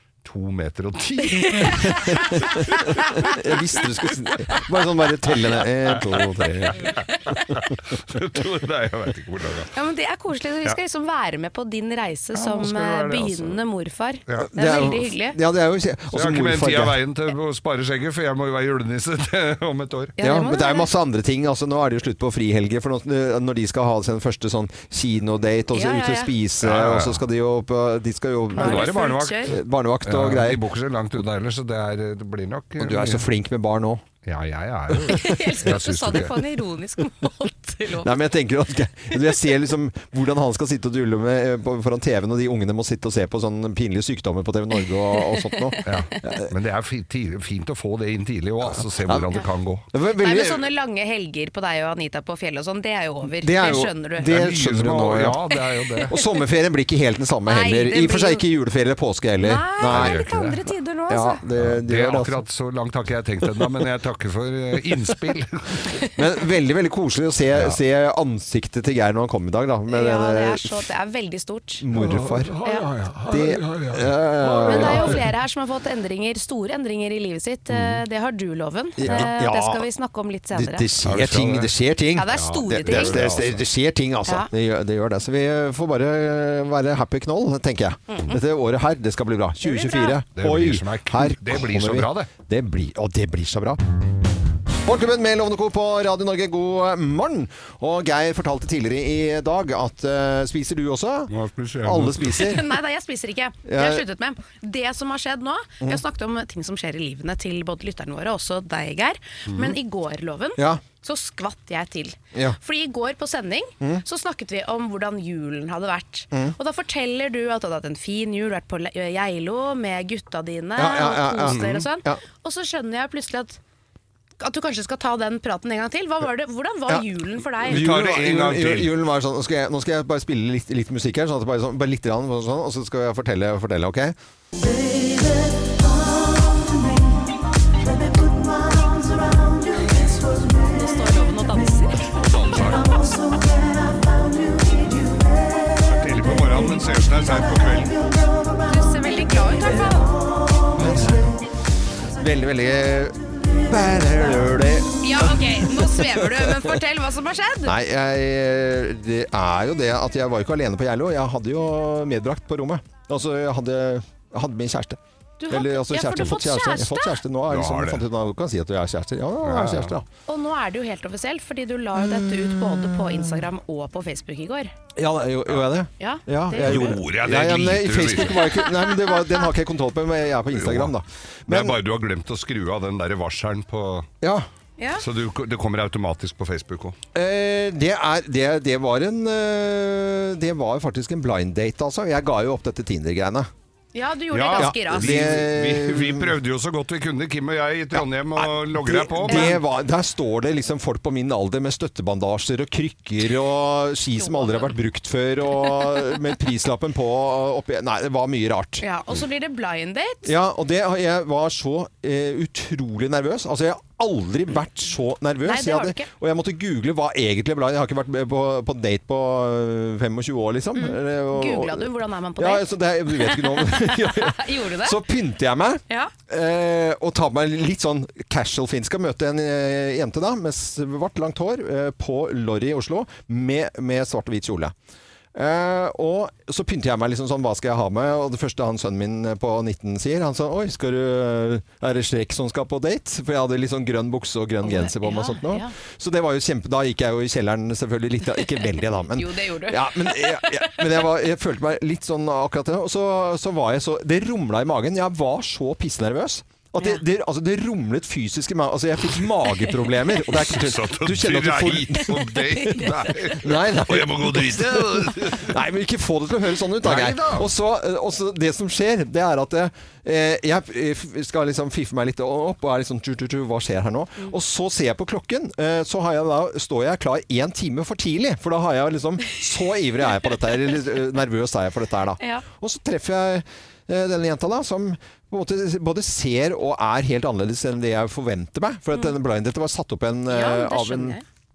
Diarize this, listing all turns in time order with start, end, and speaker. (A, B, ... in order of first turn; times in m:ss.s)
0:00.2-0:03.3 A
0:01.2-0:02.1 B
0:01.8-0:07.0 C
0:05.8-0:09.7 A
0:09.7-0:15.4 B
0:12.3-0:13.6 A
0:14.4-0:17.0 C
0:16.1-0:20.1 A
0:20.2-0:20.9 B
0:20.2-0:28.9 C
0:25.7-0:26.3 B
0:26.6-0:27.2 A
0:28.5-0:29.5 B
0:28.6-0:33.2 A
0:29.4-0:30.6 C
0:32.8-0:34.0 C
0:34.2-0:36.4 A
0:35.1-0:38.1 B
0:38.0-0:46.5 C
0:45.1-0:46.0 B
0:45.8-0:49.8 A
0:49.0-0:49.3 C
0:49.9-0:50.6 C
0:50.2-0:54.3 B
0:53.4-0:55.4 C
0:54.2-0:56.1 A
0:56.1-1:00.2 C
0:57.5-0:58.4 B
0:59.4-1:01.4 B
0:59.8-1:00.6 A
1:01.1-1:02.4 C
1:01.6-1:05.8 A
1:06.1-1:10.8 C
1:07.5-1:07.8 A
1:09.9-1:11.8 B
1:11.8-1:12.6 C
1:12.0-1:14.0 A
1:12.6-1:13.0 B
1:13.2-1:15.2 C
1:14.4-1:20.9 B
1:14.7-1:15.0 A
1:17.7-1:18.0 A
1:19.0-1:19.8 C
1:20.5-1:33.8 C
1:21.0-1:21.7 A
1:22.2-1:23.2 B
1:22.3-1:23.6 A
1:29.6-1:30.2 B
1:30.3-1:32.3 A
1:34.8-1:41.3 C
1:41.3-1:42.4 A
1:41.8-1:42.6 C
1:42.2-2:03.6 B
1:43.6-1:44.0 C
1:49.5-1:49.8 A
1:50.6-1:50.8 C
2:00.8-2:02.2 C
2:01.5-2:01.8 A
2:04.4-2:07.8 B
2:07.6-2:08.9 A
2:07.7-2:14.1 C
2:19.9-2:22.3 B
2:22.2-2:22.9 A
2:25.8-2:28.1 A
2:28.6-2:30.2 B
2:30.7-2:31.4 C
2:32.2-2:36.7 C
2:35.0-2:37.7 B
2:37.6-2:45.0 C
2:45.4-2:47.2 B
2:45.5-2:50.0 C
2:47.5-2:48.0 A
2:49.4-2:50.0 A
2:50.3-2:54.7 B
2:55.0-3:01.8 C
2:56.0-2:57.0 B
2:56.6-2:58.5 A
2:58.4-2:59.4 B
3:00.5-3:00.9 A
3:01.5-3:04.1 A
3:04.2-3:04.4 C
3:04.8-3:05.0 B
3:05.0-3:07.0 A
3:07.1-3:13.5 C
3:13.9-3:15.1 B
3:14.3-3:19.6 A
3:14.6-3:16.4 C
3:17.9-3:28.8 C
3:19.3-3:19.6 B
3:24.2-3:24.7 B
3:28.8-3:30.3 B
3:30.2-3:54.7 C
3:35.4-3:36.1 B
3:40.8-3:45.0 B
3:55.3-4:22.2 C
4:04.6-4:05.7 B
4:08.6-4:10.9 B
4:20.2-4:25.6 A
4:22.5-4:23.0 B
4:23.4-4:51.2 C
4:26.8-4:27.5 A
4:50.3-4:51.2 B